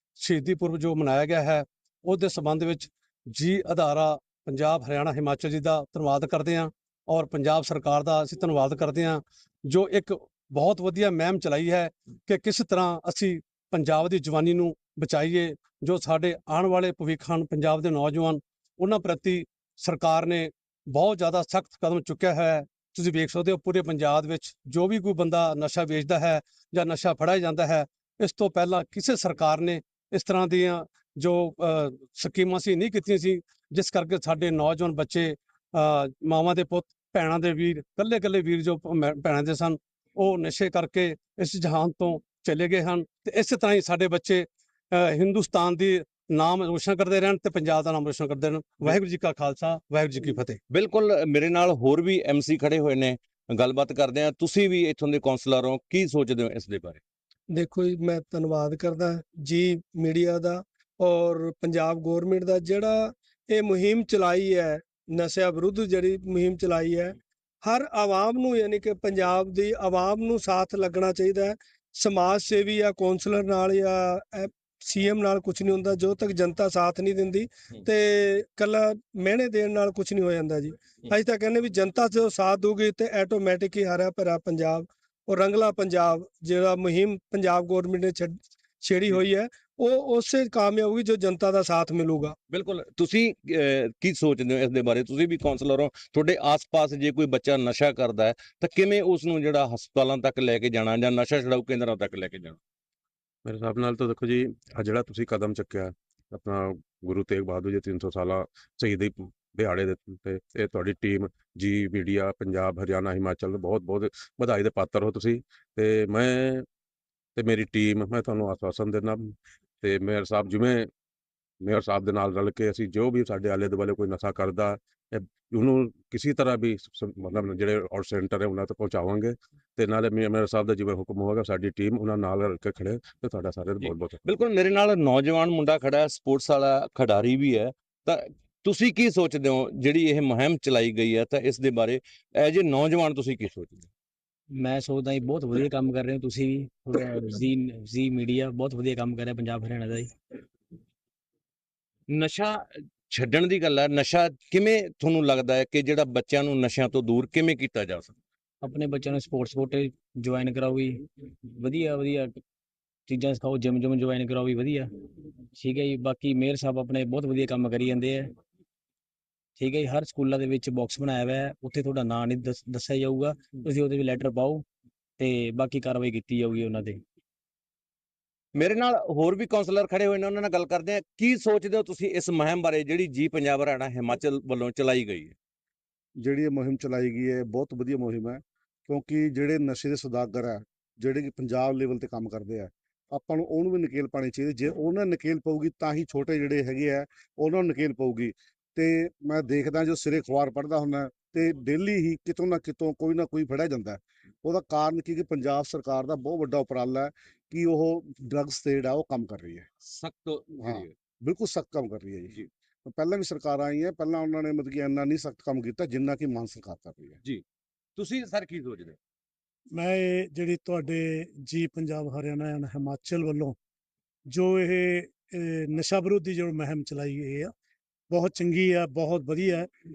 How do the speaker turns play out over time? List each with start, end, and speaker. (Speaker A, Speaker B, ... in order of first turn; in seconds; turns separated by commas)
Speaker A: 0.2-50.6, Speaker B: 50.7-57.0, Speaker C: 57.5-67.1, Speaker C: 67.6-92.3, Speaker B: 92.5-102.6, Speaker D: 103.4-116.7, Speaker D: 117.3-120.9, Speaker D: 121.6-134.3, Speaker B: 133.8-143.9, Speaker E: 144.5-150.2, Speaker B: 152.1-158.2, Speaker E: 158.6-162.4, Speaker E: 163.1-164.9, Speaker E: 165.5-168.3, Speaker E: 169.6-174.7, Speaker E: 175.2-177.0, Speaker B: 178.6-185.3, Speaker F: 186.2-209.7, Speaker B: 209.8-210.9, Speaker F: 210.6-217.2, Speaker B: 218.0-219.0, Speaker G: 219.7-223.6, Speaker G: 224.3-227.5, Speaker G: 228.1-229.7